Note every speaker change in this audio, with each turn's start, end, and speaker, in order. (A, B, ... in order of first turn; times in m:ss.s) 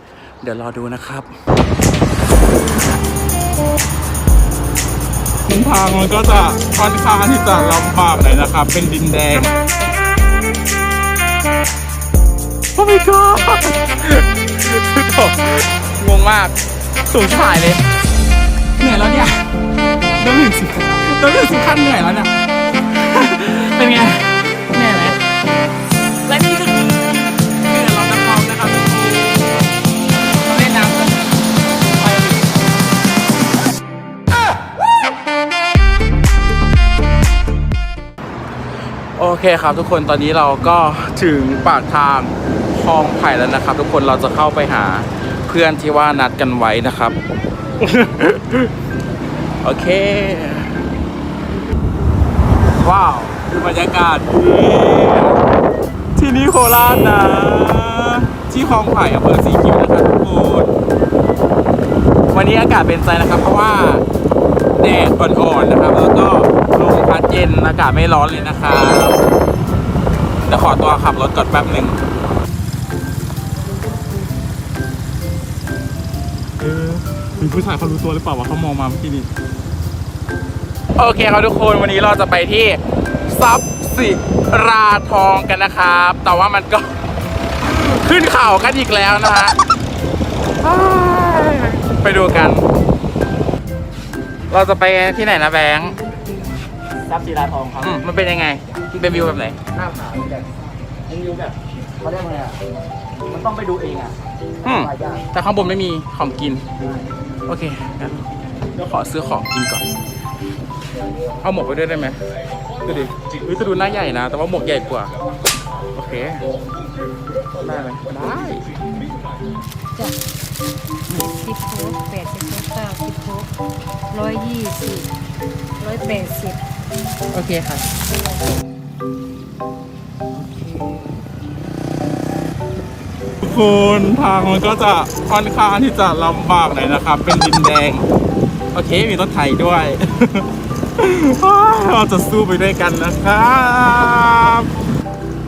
0:00.4-0:01.3 A
0:05.5-0:09.5 A
0:12.7-0:17.8 A
0:18.8-0:19.5 A
0:20.2-0:22.3 A
0:22.9-0:25.2 A
0:26.2-0:29.6 A
0:30.3-0:31.3 A
0:31.9-0:32.6 A
0:39.2-0:47.2 A
0:47.8-0:48.7 A
0:49.6-0:50.8 A
0:52.7-0:55.4 A
0:56.2-1:00.7 A
1:02.3-1:04.0 A
1:04.8-1:09.2 A
1:10.4-1:12.0 A
1:16.6-1:19.3 A
1:21.0-1:27.0 A
1:27.6-1:29.6 A
1:30.6-1:32.7 A
1:34.5-1:36.0 A
1:37.0-1:37.9 B
1:37.8-1:39.6 A
1:39.7-1:42.6 B
1:43.3-1:45.2 B
1:44.6-1:46.7 A
1:47.5-1:49.9 A
1:51.4-1:52.2 A
1:52.8-1:55.1 A
1:55.9-1:56.5 A
1:57.6-1:58.7 A
2:01.1-2:03.5 C
2:04.1-2:05.1 C
2:05.8-2:06.6 C
2:07.3-2:07.9 A
2:13.4-2:18.1 A
2:18.7-2:24.7 A